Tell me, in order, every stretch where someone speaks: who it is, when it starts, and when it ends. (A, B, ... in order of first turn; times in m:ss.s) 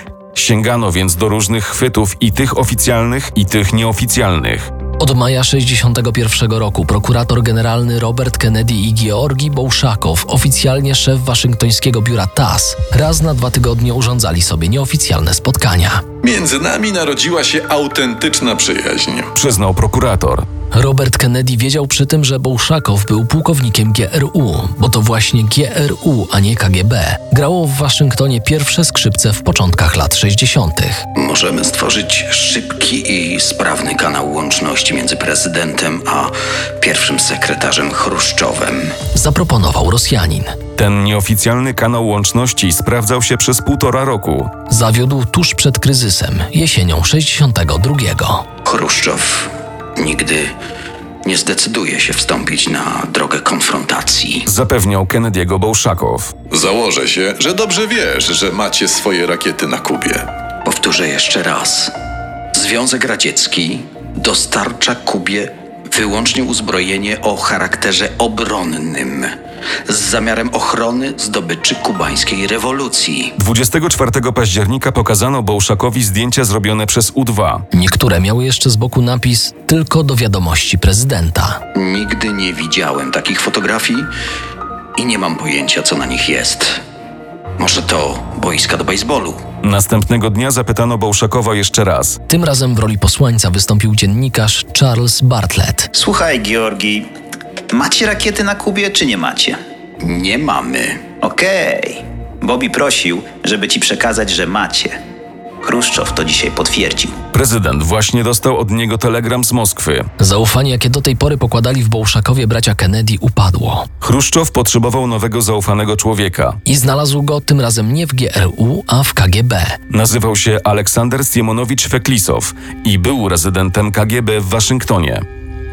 0:00.3-0:04.7 A
0:05.0-0:16.0 B
0:16.2-0:19.3 C
0:19.3-0:20.5 A
0:20.7-0:31.0 B
0:31.1-0:39.0 D
0:39.1-0:40.6 B
0:40.8-0:44.5 A
0:44.7-0:48.4 B
0:48.6-0:50.5 D
0:51.2-0:54.5 D
0:54.4-0:56.3 A
0:56.5-1:00.2 C
1:00.6-1:01.9 D
1:02.5-1:09.3 D
1:09.9-1:13.3 D
1:13.4-1:17.6 A
1:17.7-1:21.6 B
1:21.7-1:24.1 D
1:25.0-1:26.8 D
1:27.6-1:29.4 D
1:29.6-1:32.2 A
1:32.3-1:35.9 B
1:35.9-1:37.1 E
1:37.7-1:39.6 E
1:40.0-1:41.1 D
1:41.2-1:45.0 E
1:45.6-1:47.2 E
1:47.3-1:50.1 A
1:50.2-1:53.9 B
1:54.0-1:56.6 A
1:56.6-1:59.8 B
1:59.9-2:05.2 A